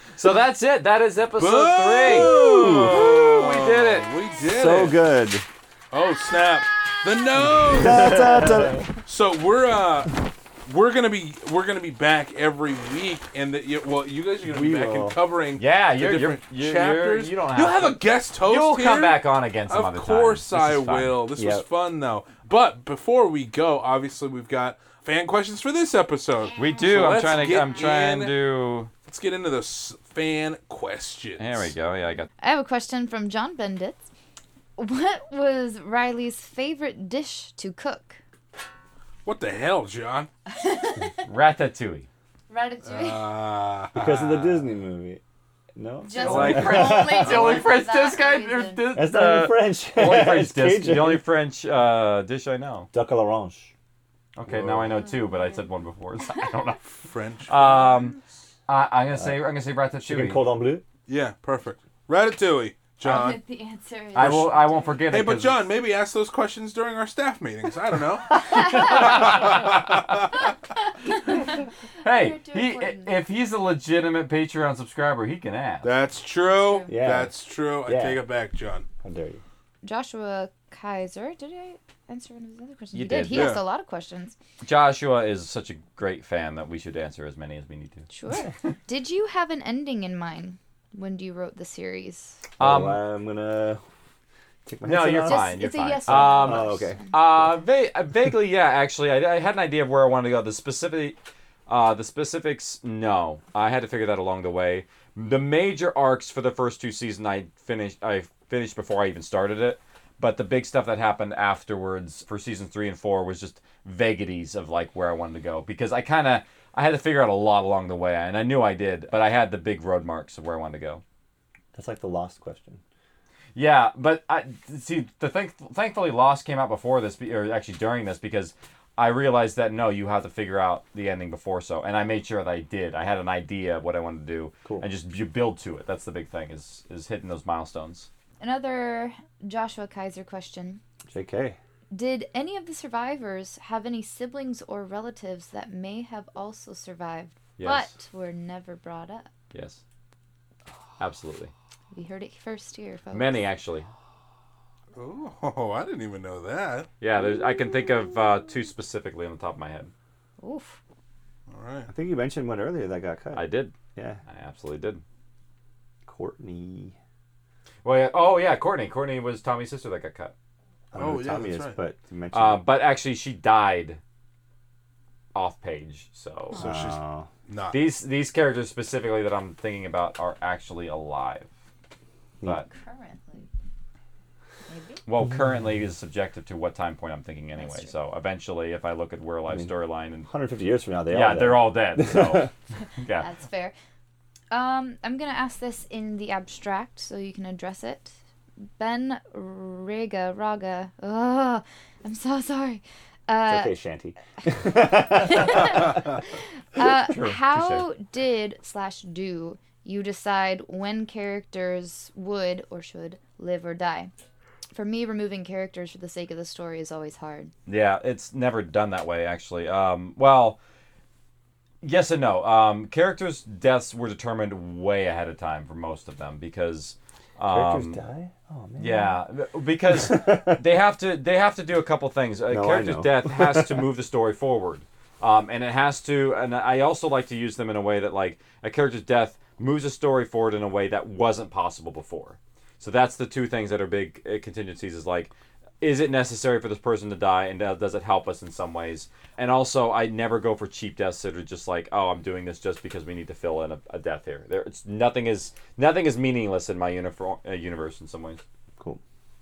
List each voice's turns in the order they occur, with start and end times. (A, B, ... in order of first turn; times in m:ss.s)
0:00.2-0:04.1 A
0:01.4-0:05.0 B
0:02.1-0:02.9 C
0:04.4-0:05.4 C
0:05.9-0:08.2 B
0:07.7-0:08.9 C
0:09.0-0:28.3 B
0:14.4-0:15.2 C
0:15.6-0:21.2 A
0:21.4-0:21.6 C
0:26.6-0:28.9 A
0:26.6-0:27.2 D
0:29.0-0:31.7 B
0:31.4-0:32.3 A
0:32.4-0:34.0 D
0:34.8-0:38.2 D
0:39.2-0:40.3 B
0:40.5-0:41.2 D
0:41.2-0:42.1 A
0:42.5-0:43.5 D
0:42.8-0:44.6 B
0:43.9-0:45.2 C
0:45.7-0:47.3 C
0:46.0-0:48.9 D
0:46.2-0:47.6 B
0:46.2-0:52.9 A
0:48.9-0:51.3 C
0:52.9-0:53.7 C
0:54.4-0:56.9 A
0:54.5-0:54.9 B
0:57.0-0:57.8 B
0:57.5-1:00.5 A
0:59.2-0:59.4 C
1:00.0-1:00.8 C
1:01.1-1:03.4 B
1:03.0-1:05.2 D
1:04.1-1:05.6 A
1:04.2-1:04.5 B
1:05.1-1:10.5 B
1:08.7-1:09.1 D
1:08.8-1:09.8 A
1:10.9-1:13.2 D
1:12.0-1:15.9 A
1:15.8-1:18.8 B
1:16.4-1:17.0 D
1:16.9-1:18.2 C
1:19.0-1:19.4 C
1:19.8-1:24.4 D
1:22.9-1:23.6 A
1:23.3-1:23.6 B
1:24.6-1:28.1 A
1:28.1-1:32.4 D
1:32.6-1:33.0 A
1:32.6-1:33.8 C
1:34.6-1:37.4 C
1:34.8-1:41.2 A
1:35.1-1:37.1 D
1:41.7-2:01.0 A
2:01.7-2:02.8 C
2:03.6-2:18.1 A
2:18.4-2:20.8 D
2:21.1-2:21.6 C
2:21.9-2:29.3 D
2:27.6-2:27.9 A
2:29.5-2:29.8 A
2:31.0-2:31.5 A
2:31.9-2:33.4 D
2:33.1-2:33.9 A
2:35.0-2:36.9 B
2:37.0-2:39.9 A
2:40.4-2:40.8 D
2:41.5-2:41.9 B
2:41.9-2:44.2 C
2:43.3-2:43.7 A
2:44.3-2:45.0 A
2:46.0-2:47.0 C
2:47.8-2:50.3 A
2:50.9-2:52.7 C
2:50.9-2:51.8 B
2:52.3-2:54.0 A
2:55.3-2:56.6 A
2:56.5-2:57.8 B
2:56.6-2:57.3 C
2:57.7-3:01.5 A
3:02.5-3:03.5 D
3:04.7-3:05.0 D
3:05.0-3:10.3 A
3:10.2-3:12.5 C
3:11.1-3:13.3 A
3:12.8-3:13.7 D
3:14.5-3:18.2 D
3:18.8-3:23.7 D
3:23.4-3:26.0 C
3:24.7-3:34.1 D
3:26.8-3:27.8 A
3:34.7-3:37.5 D
3:37.6-3:40.6 A
3:41.8-3:48.0 A
3:47.5-3:49.2 C
3:48.8-4:18.4 A
3:50.0-3:50.6 C
3:52.5-3:53.8 C